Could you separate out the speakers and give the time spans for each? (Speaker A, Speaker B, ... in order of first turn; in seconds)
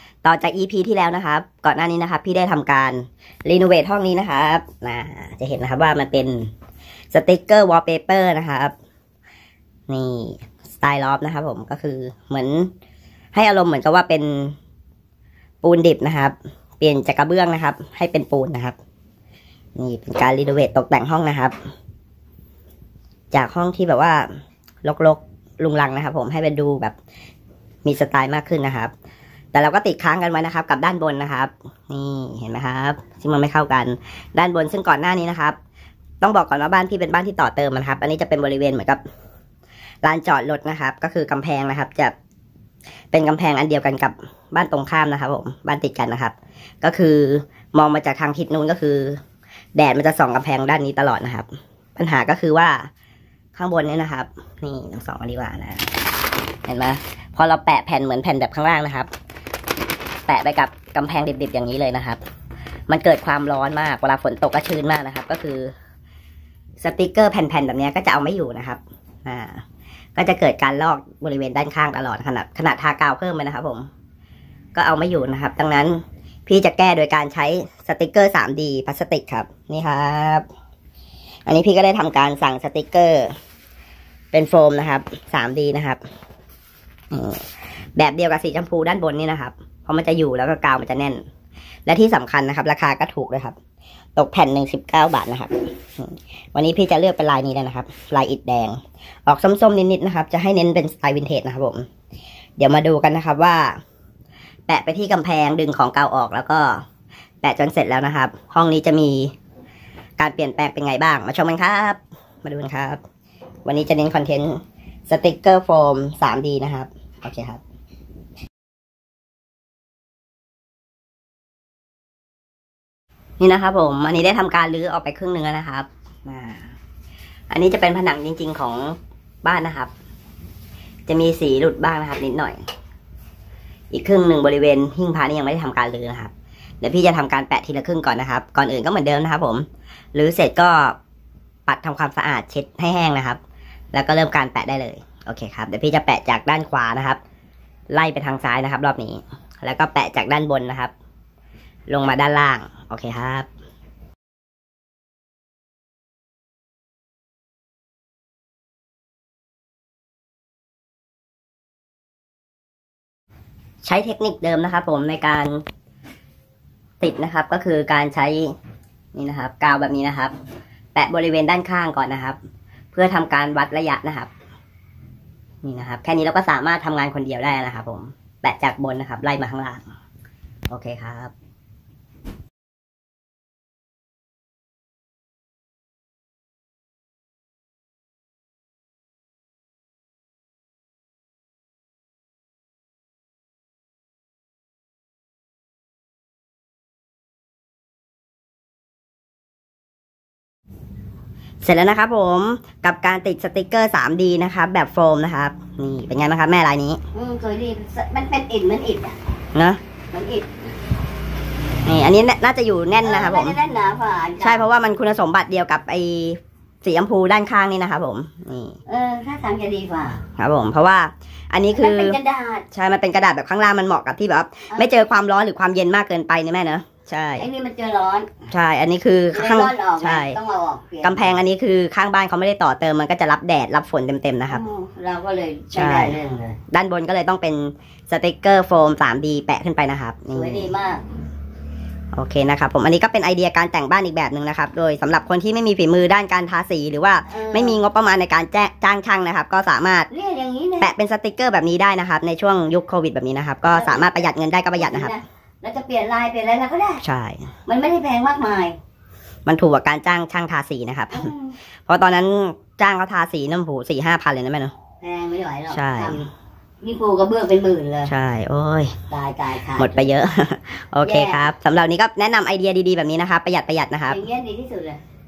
Speaker A: 0.2-6.5, 7.1-8.7, 9.9-12.7, 13.3-14.6, 15.6-18.8, 19.8-21.5, 23.3-24.3, 24.8-27.0, 27.9-28.9, 29.5-35.6, 36.2-39.0, 40.0-42.1, 43.1-49.2, 49.8-52.9, 53.5-55.9, 56.7-59.1, 60.3-62.2, 62.9-65.7, 66.8-69.6, 70.2-73.9, 74.8-80.5, 81.5-83.3, 84.3-86.0, 87.1-87.4, 88.0-91.2, 91.9-93.6, 94.2-101.9, 102.6-103.8, 104.7-106.8, 107.4-109.3, 110.2-113.0, 113.7-117.6, 123.4-126.7, 127.5-129.9, 131.1-132.6, 133.9-141.0, 141.7-143.4, 143.9-147.2, 147.9-150.9, 151.9-153.5, 163.8-165.6, 167.0-168.5, 169.1-170.3, 170.9-172.4, 172.9-174.3, 175.6-179.9, 180.7-181.3, 201.6-207.0, 209.6-209.8, 211.9-213.6, 214.4-218.8, 220.4-222.2, 222.7-227.5, 228.5-230.4, 231.0-234.6, 235.7-236.2, 236.7-240.7, 242.1-250.1, 250.8-255.2, 257.0-257.5, 259.5-261.3, 261.9-264.8, 265.7-266.2, 268.1-269.0, 269.8-274.2
Speaker B: 207.1-209.2, 210.1-210.6, 213.0-214.7, 218.9-220.2, 221.7-222.7, 224.7-225.1, 227.4-228.3, 229.3-231.3, 234.5-236.6, 240.3-241.0, 247.3-247.8, 250.1-250.9, 253.7-254.2, 254.8-257.0, 257.7-258.8, 261.1-261.6, 265.0-266.3, 266.8-268.1, 269.1-270.1, 271.1-271.4, 274.1-275.0